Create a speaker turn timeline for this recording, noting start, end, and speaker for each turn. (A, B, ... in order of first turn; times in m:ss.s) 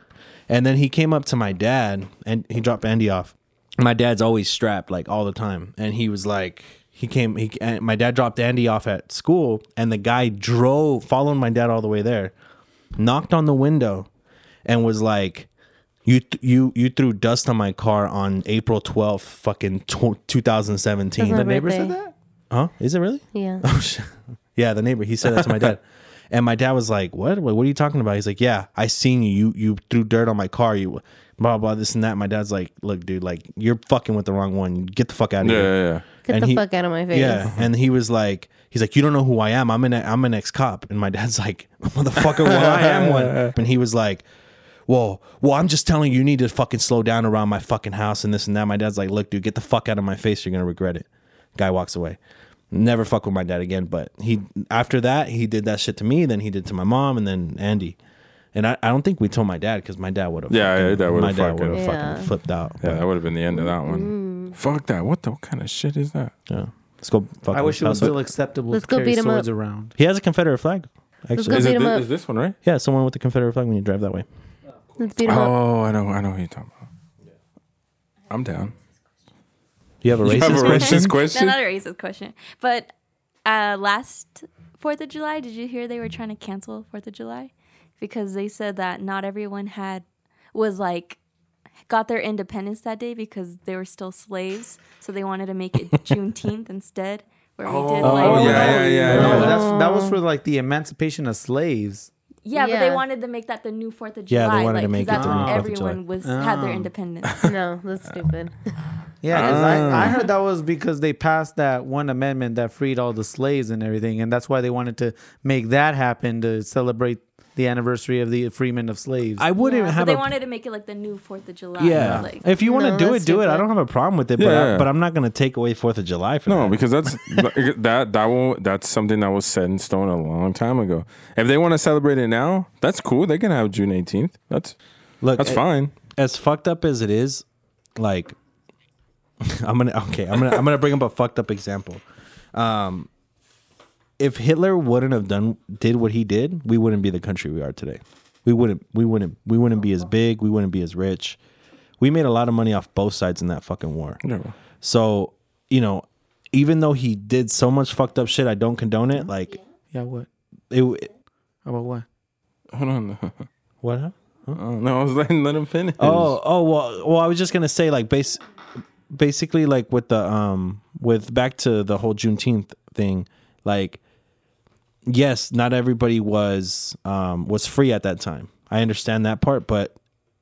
0:00.5-0:12.3 A
0:13.0-0:14.1 A
0:14.6-0:15.5 A
0:16.0-0:21.5 A
0:21.2-0:22.0 B
0:21.2-0:22.1 C
0:22.5-0:44.2 A
0:23.3-0:23.6 B
0:25.4-0:25.6 D
0:35.4-0:36.1 D
0:36.2-0:37.5 B
0:42.2-0:43.6 D
0:44.9-0:52.2 A
0:52.7-0:58.0 A
0:58.5-1:03.0 A
1:00.5-1:01.9 D
1:01.7-1:02.3 B
1:02.8-1:06.3 D
1:03.5-1:04.6 B
1:06.5-1:08.2 A
1:07.5-1:09.9 C
1:08.7-1:09.5 B
1:10.0-1:11.7 A
1:11.4-1:12.1 B
1:11.5-1:12.6 D
1:12.6-1:14.2 A
1:15.0-1:15.6 B
1:15.2-1:16.8 D
1:18.3-1:18.7 D
1:20.0-1:21.2 A
1:20.2-1:21.6 D
1:20.5-1:22.9 E
1:23.4-1:31.2 E
1:31.9-1:39.4 E
1:37.7-1:42.1 C
1:38.0-1:39.6 D
1:38.0-1:39.6 A
1:39.1-1:40.2 B
1:42.4-1:47.5 E
1:42.6-1:43.0 B
1:44.3-1:46.0 A
1:45.1-1:45.7 C
1:46.2-1:46.9 C
1:47.4-1:48.6 B
1:49.2-1:59.5 C
1:49.3-1:50.2 D
1:49.4-1:49.9 A
1:59.4-2:00.3 A
1:59.6-2:02.4 E
2:01.8-2:07.4 A
2:01.9-2:02.3 C
2:02.6-2:03.7 B
2:04.4-2:04.9 D
2:06.5-2:14.8 D
2:15.2-2:17.4 A
2:15.4-2:16.0 D
2:18.0-2:18.4 A
2:19.4-2:22.0 A
2:22.5-2:23.1 A
2:24.2-2:31.4 A
2:32.0-2:34.2 A
2:34.2-2:34.6 D
2:34.8-2:39.6 A
2:39.9-2:40.3 C
2:40.7-2:41.1 A
2:41.6-2:42.0 C
2:42.7-2:43.5 D
2:43.8-2:44.6 A
2:44.6-2:46.4 D
2:46.0-2:48.4 A
2:49.1-2:54.0 A
2:55.1-3:00.0 A